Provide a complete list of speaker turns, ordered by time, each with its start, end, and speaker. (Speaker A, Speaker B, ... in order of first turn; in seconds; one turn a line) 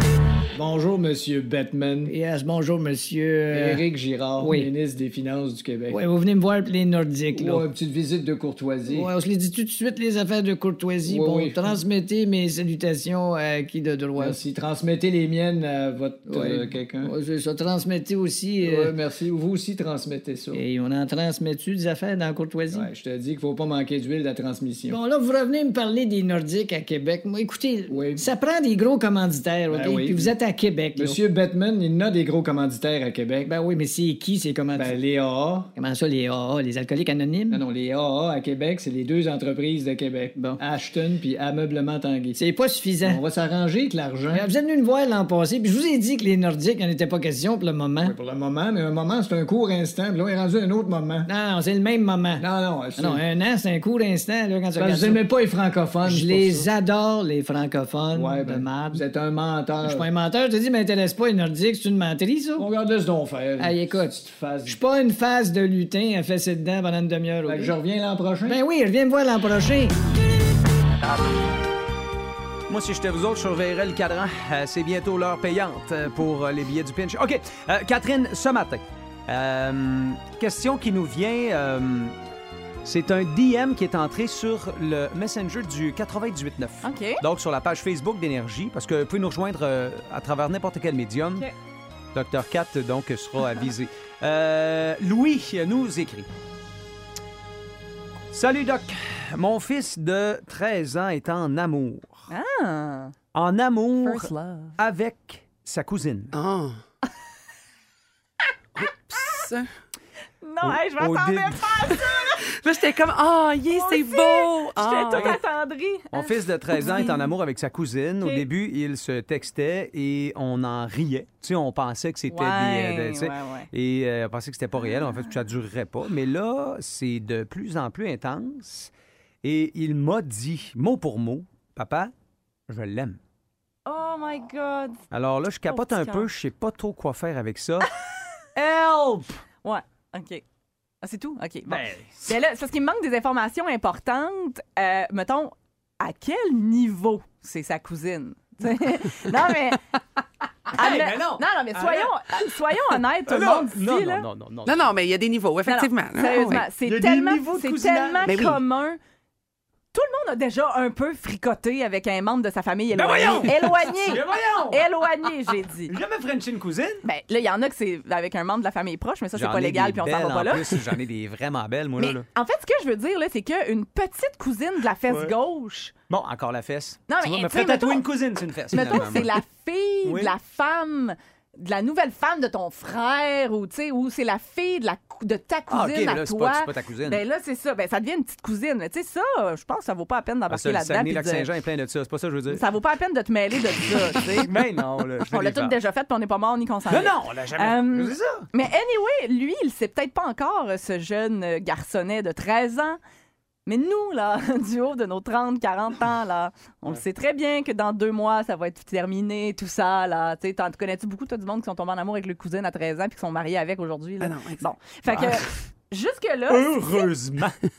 Speaker A: 0.6-2.1
Speaker B: 2.1-3.9
Speaker A: 3.5-6.0
Speaker B: 4.4-4.7
Speaker B: 5.9-7.7
Speaker A: 7.3-9.1
Speaker B: 8.9-14.4
Speaker A: 11.1-11.8
Speaker A: 14.2-17.1
Speaker B: 16.3-18.9
Speaker A: 18.6-20.6
Speaker B: 20.5-22.9
Speaker A: 22.7-25.0
Speaker B: 24.9-31.2
Speaker A: 27.9-28.3
Speaker A: 29.7-30.3
Speaker A: 30.9-33.5
Speaker B: 33.5-35.0
Speaker A: 34.7-35.7
Speaker B: 35.8-37.6
Speaker A: 37.5-42.4
Speaker B: 40.4-40.6
Speaker B: 42.4-43.2
Speaker A: 43.0-44.4
Speaker B: 44.3-48.1
Speaker A: 48.0-51.3
Speaker B: 51.3-55.2
Speaker A: 52.4-53.2
Speaker A: 54.8-56.7
Speaker B: 56.0-59.0
Speaker A: 58.1-60.1
Speaker B: 59.8-62.7
Speaker A: 62.6-64.8
Speaker B: 63.6-67.8
Speaker A: 67.5-68.6
Speaker B: 68.5-70.0
Speaker C: 72.7-82.2
Speaker C: 82.8-91.5
Speaker D: 86.8-87.2
Speaker C: 92.1-96.3
Speaker C: 98.3-102.2
Speaker D: 102.3-103.1
Speaker C: 103.3-106.3
Speaker D: 104.0-104.8
Speaker E: 106.3-106.8
Speaker E: 108.8-109.7
Speaker D: 110.4-112.5
Speaker C: 110.6-112.0
Speaker E: 112.5-115.4
Speaker D: 113.7-117.3
Speaker C: 116.1-128.9
Speaker D: 122.3-123.7
Speaker C: 129.4-132.1
Speaker C: 132.7-133.2
Speaker D: 133.9-135.0
Speaker C: 135.1-137.9
Speaker D: 135.7-136.3
Speaker C: 138.6-139.4
Speaker D: 139.6-140.4
Speaker D: 141.0-149.8
Speaker C: 141.7-142.3
Speaker C: 150.7-152.4
Speaker D: 150.7-154.2
Speaker C: 153.3-154.9
Speaker E: 154.7-156.6
Speaker D: 155.7-159.0
Speaker C: 156.8-158.5
Speaker E: 158.2-158.6
Speaker D: 159.9-165.9
Speaker C: 162.9-164.9
Speaker C: 165.9-167.0
Speaker D: 167.0-170.8
Speaker C: 169.3-172.2
Speaker D: 172.0-175.9
Speaker C: 175.1-175.3
Speaker C: 176.1-179.3
Speaker D: 177.1-178.1
Speaker D: 178.7-191.5
Speaker C: 180.0-180.3
Speaker C: 185.7-187.2
Speaker C: 190.5-192.6
Speaker D: 192.5-194.5
Speaker C: 193.9-195.8
Speaker D: 195.3-203.0
Speaker C: 196.9-198.5
Speaker D: 203.7-217.1
Speaker E: 214.2-214.6
Speaker C: 215.1-215.5
Speaker C: 216.5-217.6